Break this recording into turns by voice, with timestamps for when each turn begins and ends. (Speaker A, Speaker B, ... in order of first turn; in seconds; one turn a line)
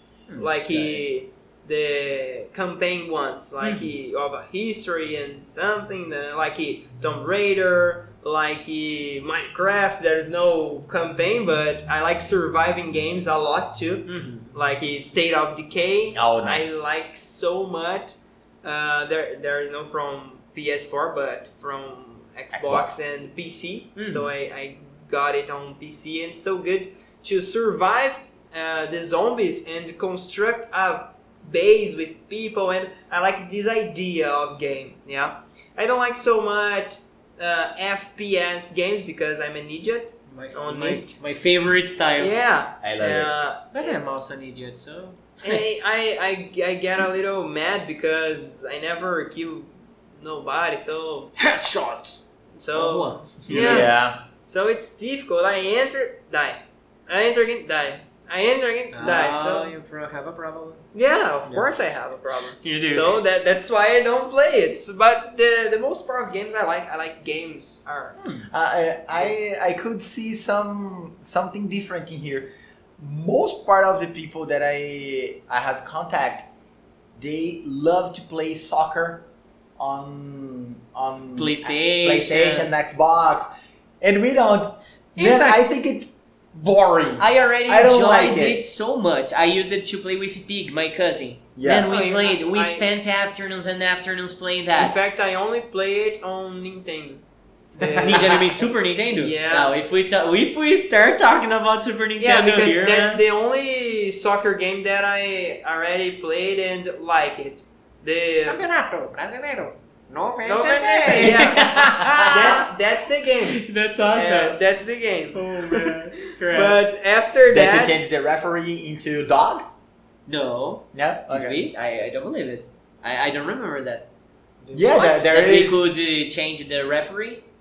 Speaker A: 0.4-41.2
Speaker B: 0.7-1.0
Speaker C: 3.6-3.9
Speaker C: 14.1-14.5
Speaker B: 16.1-16.8
Speaker B: 22.5-22.9
Speaker C: 23.9-24.3
Speaker C: 40.3-42.3
Speaker A: 42.2-44.0
Speaker B: 42.8-43.3
Speaker C: 43.7-45.3
Speaker A: 45.4-51.3
Speaker C: 51.4-52.2
Speaker A: 52.6-53.9
Speaker C: 52.7-53.9
Speaker B: 53.5-54.2
Speaker A: 54.4-59.7
Speaker C: 58.9-60.8
Speaker A: 60.9-68.2
Speaker C: 61.5-61.7
Speaker C: 62.6-63.1
Speaker C: 68.2-68.5
Speaker B: 68.5-76.5
Speaker B: 77.2-79.2
Speaker B: 79.8-83.5
Speaker C: 81.3-82.7
Speaker B: 84.0-88.6
Speaker C: 85.2-85.6
Speaker C: 87.2-94.9
Speaker B: 91.5-91.9
Speaker A: 91.8-92.9
Speaker A: 94.8-98.7
Speaker C: 97.9-103.2
Speaker A: 99.2-99.7
Speaker A: 102.2-108.6
Speaker C: 108.5-112.7
Speaker A: 110.4-118.0
Speaker B: 111.0-112.6
Speaker C: 113.4-114.6
Speaker C: 115.3-116.8
Speaker B: 117.5-119.6
Speaker C: 120.3-124.0
Speaker B: 120.9-121.7
Speaker C: 124.7-127.4
Speaker B: 124.7-125.8